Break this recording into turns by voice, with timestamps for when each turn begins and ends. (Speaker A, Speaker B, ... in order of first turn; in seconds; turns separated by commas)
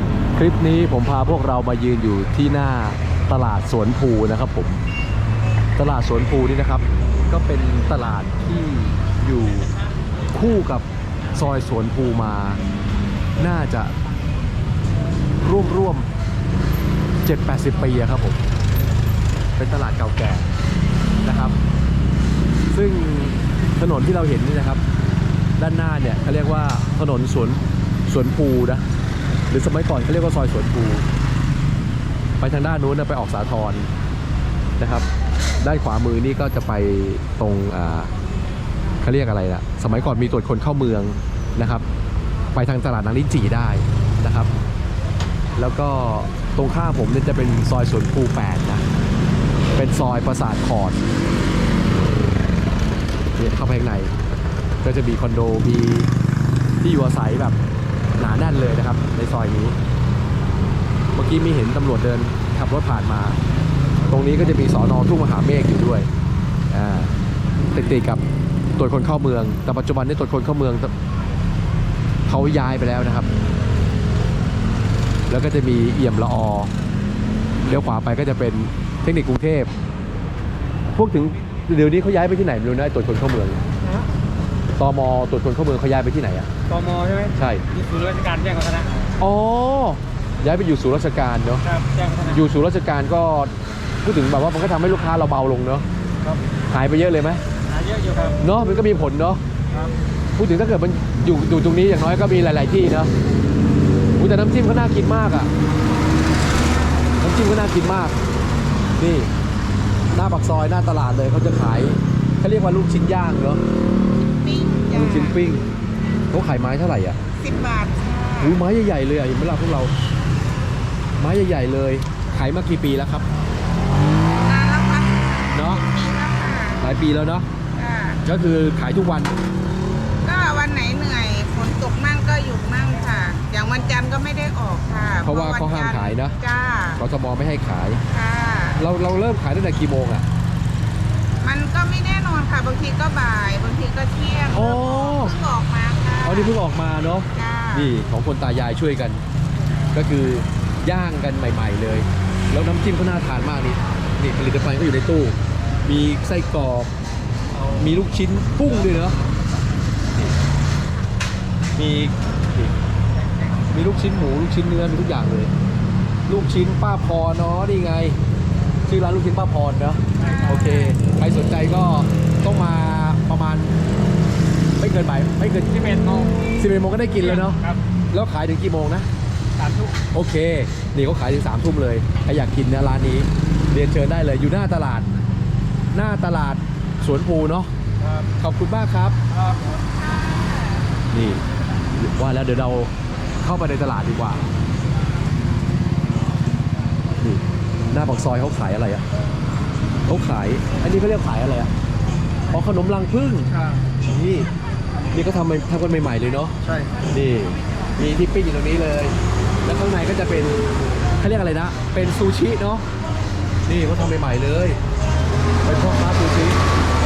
Speaker A: 0.3-4.9, Speaker A: 5.8-9.7, Speaker A: 10.3-12.6, Speaker A: 13.4-13.9, Speaker A: 15.4-16.1, Speaker A: 17.2-18.4, Speaker A: 19.6-20.5, Speaker A: 21.2-21.5, Speaker A: 22.7-24.8, Speaker A: 25.6-28.8, Speaker A: 29.5-31.0, Speaker A: 32.4-33.9, Speaker A: 34.8-35.1, Speaker A: 35.6-38.1, Speaker A: 39.0-41.8, Speaker A: 42.5-44.5, Speaker A: 45.6-48.8, Speaker A: 49.7-51.0, Speaker A: 51.9-52.3, Speaker A: 53.4-54.1, Speaker A: 54.8-56.1, Speaker A: 56.8-57.6, Speaker A: 58.2-59.8, Speaker A: 61.1-63.4, Speaker A: 64.1-66.1, Speaker A: 66.7-67.1, Speaker A: 67.7-68.2, Speaker A: 68.8-70.9, Speaker A: 72.3-73.3, Speaker A: 75.3-76.7, Speaker A: 77.6-79.7, Speaker A: 80.9-83.6, Speaker A: 84.8-86.5, Speaker B: 86.7-89.1, Speaker A: 87.3-87.6, Speaker A: 89.2-91.6, Speaker B: 91.6-92.4, Speaker A: 92.2-95.8, Speaker A: 96.7-97.4, Speaker B: 97.7-98.4, Speaker A: 98.4-99.4, Speaker A: 100.4-103.1, Speaker A: 104.2-105.5, Speaker A: 107.2-108.2, Speaker A: 109.0-109.3, Speaker A: 110.1-113.6, Speaker C: 114.4-115.4, Speaker A: 114.9-115.6, Speaker A: 116.3-117.2, Speaker C: 117.4-118.6, Speaker A: 118.4-119.9, Speaker A: 121.2-123.2, Speaker C: 124.5-126.8, Speaker A: 125.5-125.8, Speaker A: 126.8-127.5, Speaker C: 127.7-128.2, Speaker A: 128.2-129.3, Speaker C: 130.2-137.0, Speaker A: 135.2-136.3, Speaker A: 137.0-138.0, Speaker C: 138.1-138.8, Speaker A: 138.8-140.2, Speaker C: 141.4-146.6, Speaker A: 144.5-145.4, Speaker A: 146.2-149.2, Speaker C: 147.3-147.9, Speaker A: 149.9-156.9, Speaker A: 157.8-159.2, Speaker A: 161.7-162.7, Speaker A: 163.7-165.5, Speaker A: 166.3-168.2, Speaker A: 168.8-173.8, Speaker B: 170.2-170.9, Speaker A: 174.8-175.7, Speaker B: 175.6-176.3, Speaker A: 176.6-177.6, Speaker B: 177.1-177.8, Speaker A: 178.1-179.1, Speaker B: 179.6-179.9, Speaker A: 180.1-185.1, Speaker A: 185.9-187.7, Speaker B: 188.0-188.3, Speaker A: 188.4-189.2, Speaker B: 189.3-189.8, Speaker C: 190.2-190.5, Speaker A: 191.1-192.9, Speaker A: 193.4-194.5, Speaker A: 197.2-199.0, Speaker A: 200.1-201.7, Speaker A: 202.5-203.5, Speaker B: 203.5-203.8, Speaker A: 204.1-204.5, Speaker A: 205.1-206.6, Speaker B: 206.6-206.9, Speaker A: 207.1-210.6, Speaker A: 211.2-212.8, Speaker A: 213.7-214.8, Speaker A: 215.6-216.6